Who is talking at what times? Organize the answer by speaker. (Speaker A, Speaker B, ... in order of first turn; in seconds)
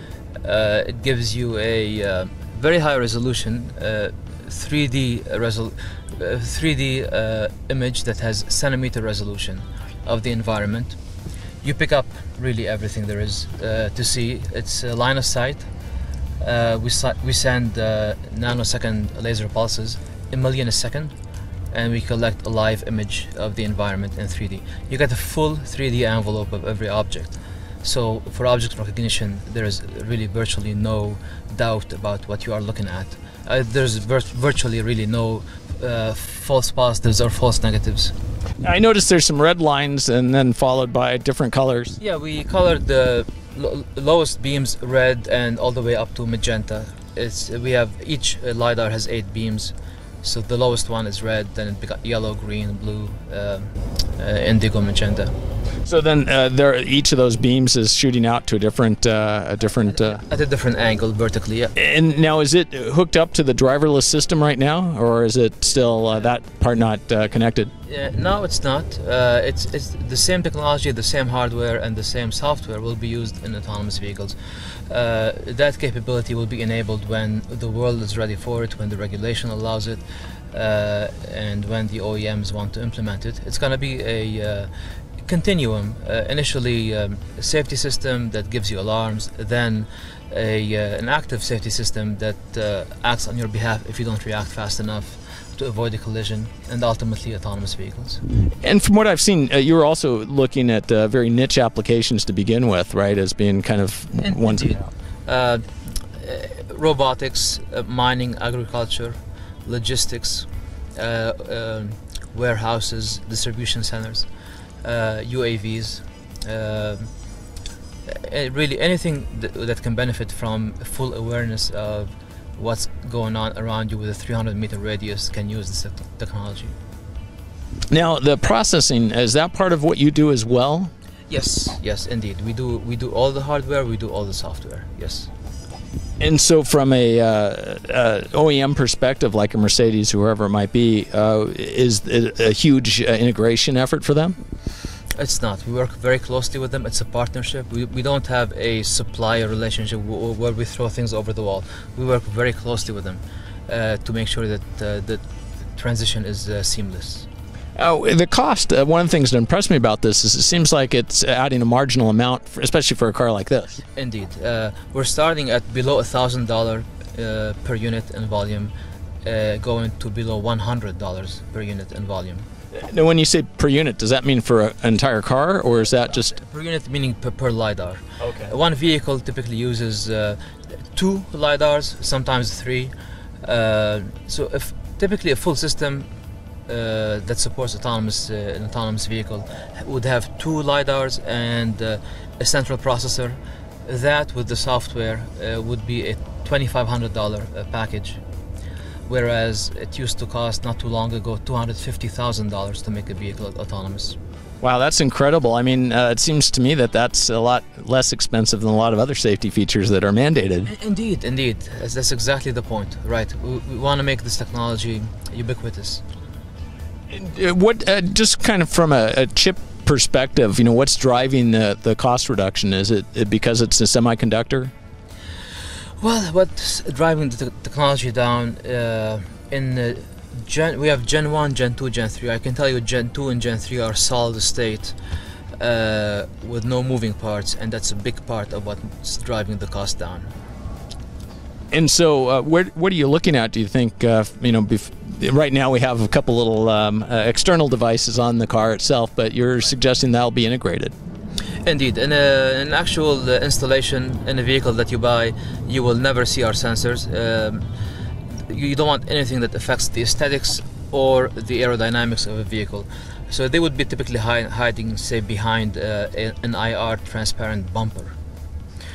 Speaker A: 0.4-11.0, 11.6-15.7, 16.4-21.1, 21.7-38.1, 42.0-55.3, 59.9-61.7, 67.8-84.7, 85.2-98.2, 104.2-114.3, 114.8-117.1, 118.1-126.7, 131.3-135.3, 145.1-155.2, 155.7-157.3, 163.9-168.7, 169.2-172.4, 176.2-180.4, 180.9-186.1, 186.7-198.2, 199.1-204.2, 210.6-216.0, 226.0-234.9, 235.6-240.3, 251.6-257.7, 258.4-268.1
Speaker B: 38.6-42.0, 55.8-60.2, 61.8-67.7, 98.6-104.7, 127.9-130.9, 136.2-144.4, 157.8-163.8, 172.7-176.3, 178.2-178.5, 204.6-210.7, 217.1-224.7, 241.7-250.9